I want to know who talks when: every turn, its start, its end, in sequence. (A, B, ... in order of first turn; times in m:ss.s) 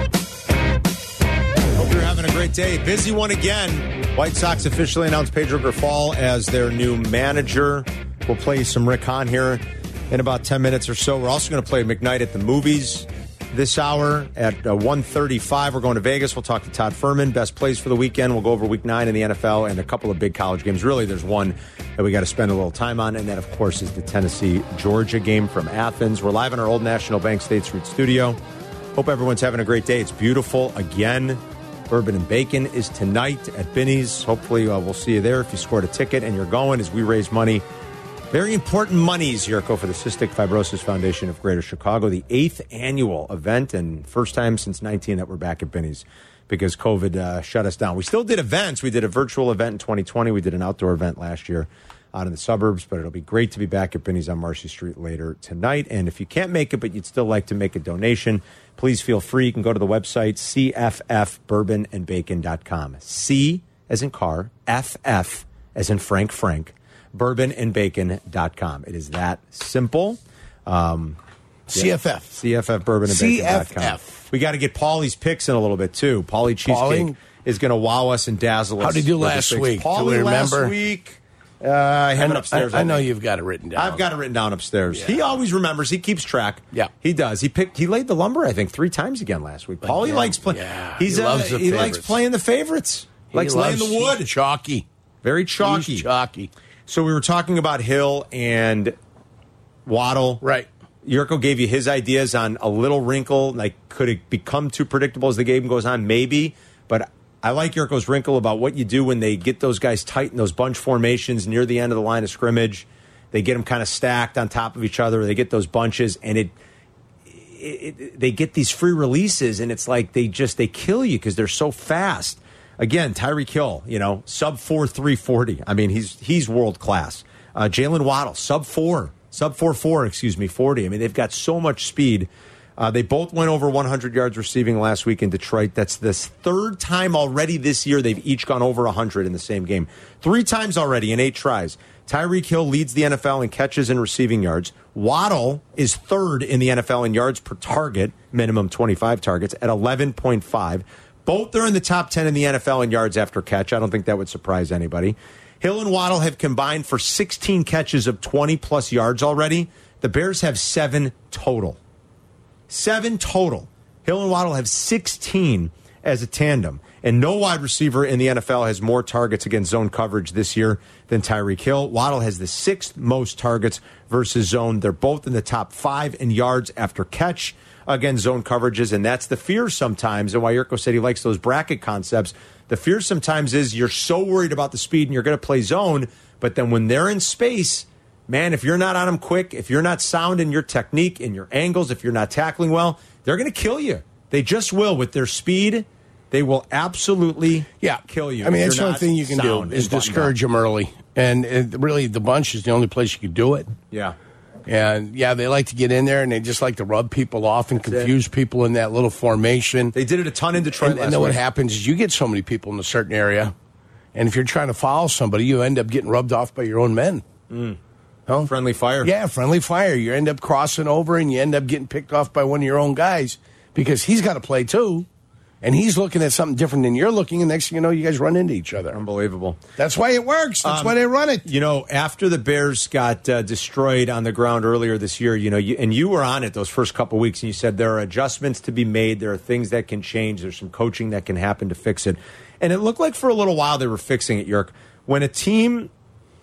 0:01.8-0:28.4 A
0:29.0-0:37.6 A
0:38.3-1:11.2 A
1:11.7-1:12.4 B
1:11.7-1:23.0 A
1:13.0-1:14.3 B
1:16.6-1:17.2 B
1:18.8-1:20.7 B
1:22.1-1:24.0 B
1:23.7-1:34.3 A
1:24.9-1:25.2 B
1:29.8-1:32.2 B
1:33.3-1:34.8 B
1:35.2-1:36.1 A
1:35.6-1:36.5 B
1:36.9-1:39.0 A
1:39.8-1:40.4 A
1:40.4-1:40.7 B
1:41.0-1:56.5 A
1:57.3-2:41.8 A
2:42.7-3:20.3 A
3:17.8-3:23.7 B
3:23.9-3:24.2 A
3:24.7-3:29.9 B
3:27.8-3:28.1 A
3:29.9-3:31.4 A
3:30.8-3:33.5 B
3:34.1-3:37.2 B
3:37.5-3:37.8 A
3:38.4-3:39.1 A
3:39.0-3:45.1 B
3:45.6-3:49.0 B
3:48.9-3:49.6 A
3:49.8-3:51.4 B
3:50.6-4:05.9 A